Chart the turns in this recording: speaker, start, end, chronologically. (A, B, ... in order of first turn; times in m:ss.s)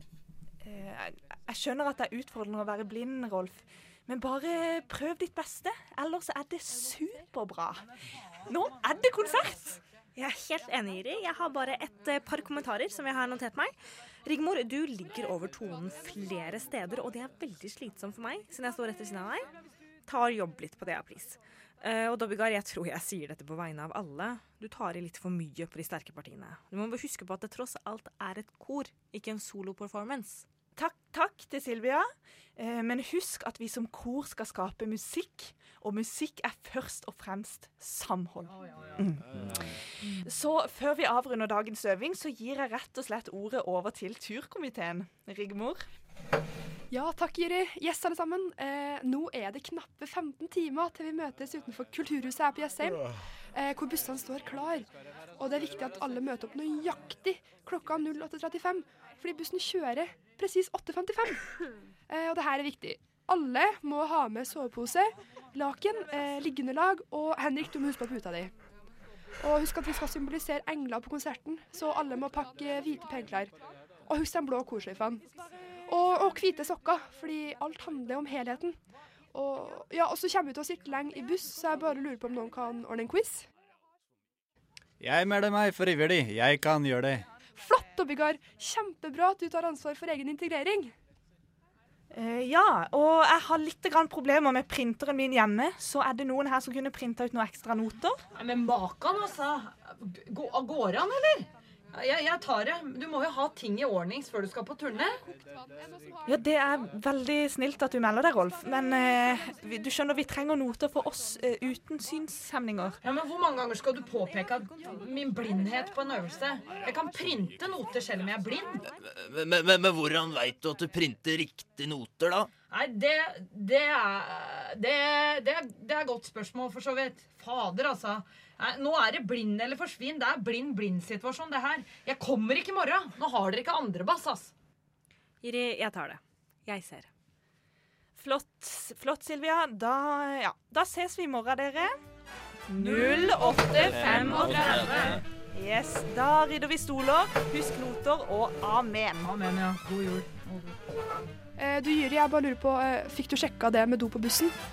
0:00.6-0:07.8 A
0:08.5-0:09.8 A
0:10.2-0:13.7 B
0:14.2-0:19.5 B
0:20.1-0:30.4 B
0:30.8-0:45.8 A
0:38.5-0:39.1 C
0:46.9-1:01.5 D
1:02.1-1:08.5 D
1:09.4-1:13.6 D
1:14.1-1:15.2 D
1:15.9-1:23.4 D
1:25.0-1:27.2 E
1:27.6-1:30.9 D
1:32.1-1:38.2 A
1:38.4-1:45.2 C
1:46.3-1:53.0 A
1:53.0-1:58.8 C
1:59.0-2:02.5 F
2:02.7-2:14.5 C
2:15.4-2:17.1 B
2:18.2-2:22.0 A
2:22.7-2:29.3 A
2:22.8-2:25.2 C
2:24.1-2:25.2 F
2:29.2-2:30.8 C
2:31.6-2:34.6 D